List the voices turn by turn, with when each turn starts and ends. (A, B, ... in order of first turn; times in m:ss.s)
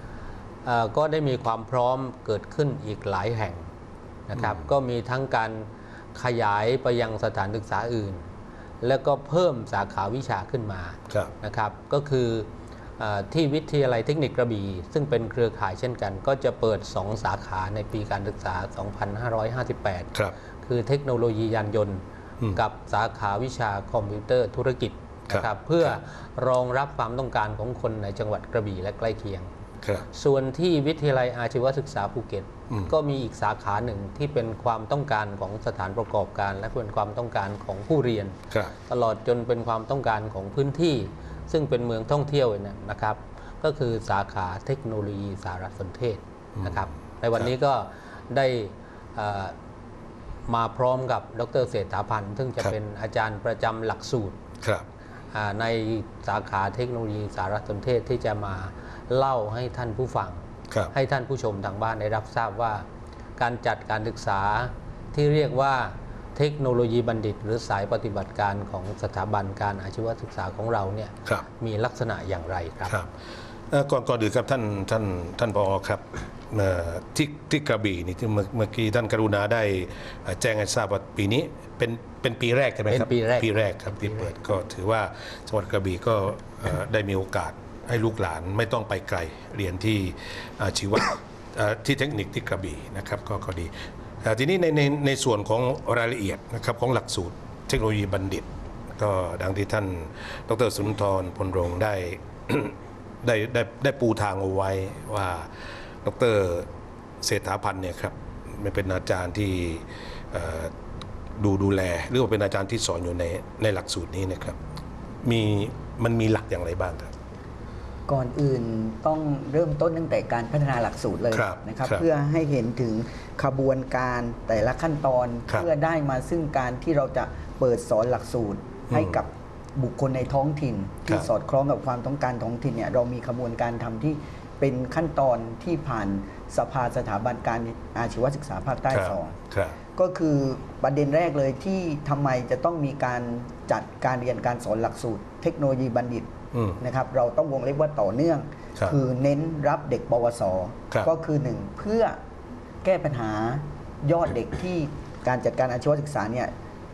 0:00.6-0:03.7 A
0:04.3-0:08.2 A
0:04.4-0:04.6 B
0:08.8-0:20.1 A
0:20.6-0:22.0 A
0:22.5-0:29.5 A
0:25.3-0:25.9 B
0:30.1-0:49.6 A
0:46.6-0:47.5 B
0:50.5-0:54.4 A
0:54.6-0:54.9 B
0:55.3-1:02.8 A
1:03.4-1:12.9 A
1:13.7-1:45.5 B
1:22.9-1:24.3 A
1:46.0-1:46.7 B
1:47.2-1:50.7 B
1:51.4-1:54.6 B
1:55.2-1:57.1 B
1:58.1-2:19.4 C
2:01.3-2:02.0 B
2:08.9-2:09.2 B
2:18.9-2:19.8 B
2:20.0-2:32.2 C
2:26.5-2:26.8 B
2:32.8-2:36.5 C